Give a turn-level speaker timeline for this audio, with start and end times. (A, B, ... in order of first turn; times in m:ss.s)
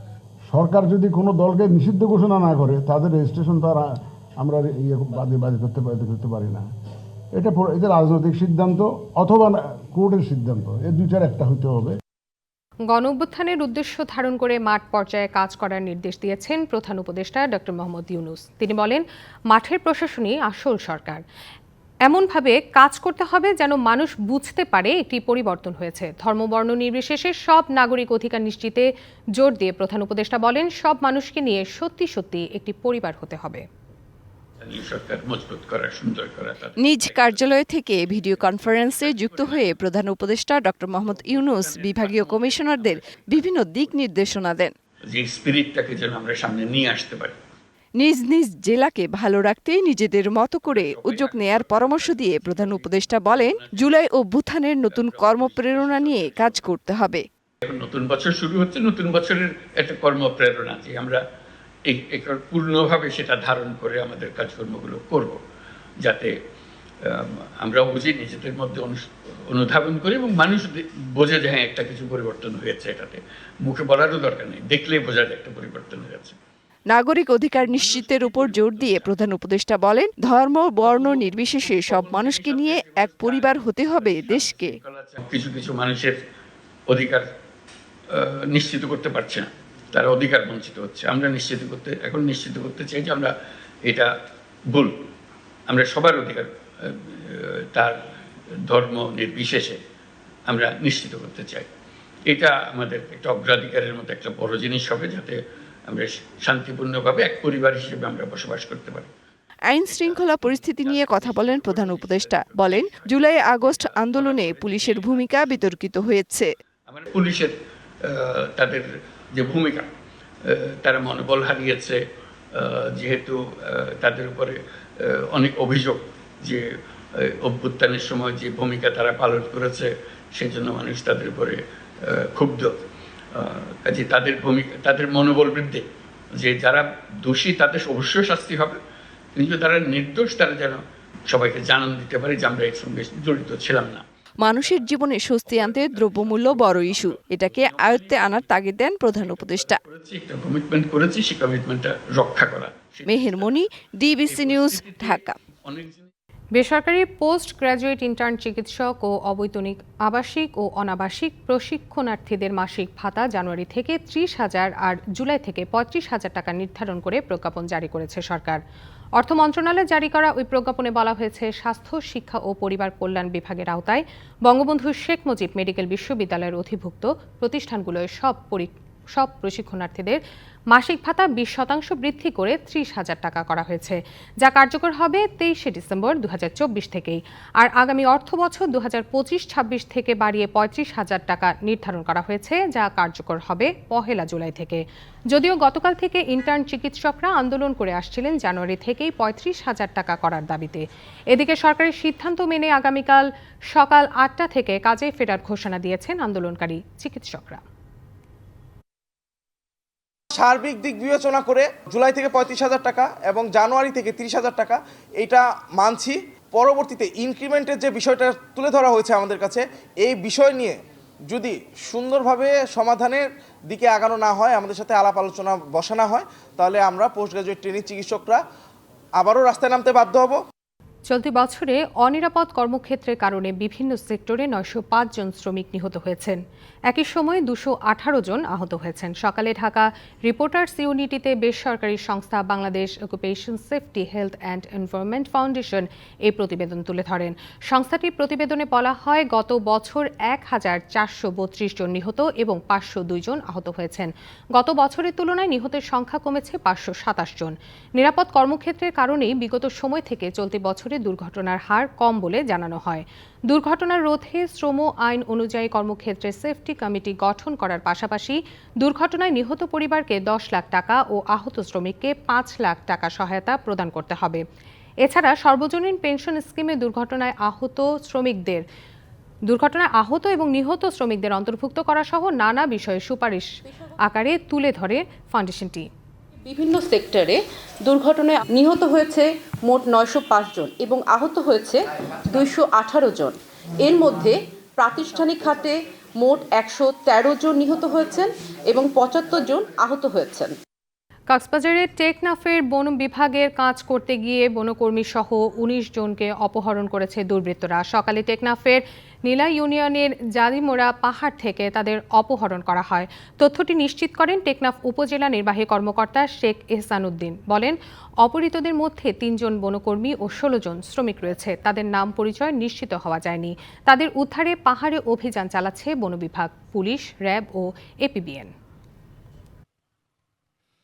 0:00.5-0:03.9 A
0:04.4-0:06.6 A
0:07.4-0:12.0 A
0:12.9-0:21.2 B
0:22.1-0:33.6 B
0:34.6-0:39.9 C
0:36.8-0:44.7 D
0:41.0-0:43.9 C
0:45.1-0:47.4 C
0:48.0-0:57.2 D
0:50.6-0:53.9 C
0:54.9-0:56.6 C
0:57.6-1:01.2 C
1:01.9-1:05.4 C
1:06.0-1:06.4 C
1:07.0-1:16.4 C
1:16.9-1:24.8 D
1:17.6-1:19.1 C
1:20.8-1:26.2 C
1:26.9-1:27.2 C
1:28.1-1:33.3 C
1:33.8-1:34.1 C
1:34.7-1:35.0 C
1:35.7-1:38.0 C
1:38.6-1:39.8 C
1:40.5-1:41.7 C
1:42.3-1:49.1 C
1:49.7-1:56.5 D
1:49.8-1:55.7 C
1:56.9-1:59.9 C
2:00.4-2:02.0 C
2:02.6-2:12.8 C
2:13.3-2:18.8 C
2:19.4-2:24.0 C
2:24.4-2:29.8 D
2:24.6-2:24.9 C
2:25.4-2:33.6 C
2:33.1-2:35.4 D
2:34.2-2:36.1 C
2:36.6-2:48.6 B
2:49.2-3:00.2 B
3:00.7-3:27.6 B
3:30.3-3:48.4 E
3:49.2-3:50.4 E
3:51.1-4:34.4 B
4:35.0-4:38.6 B
4:39.5-4:43.5 B
4:44.0-4:45.9 B
4:46.5-5:00.6 F
5:01.3-5:28.5 B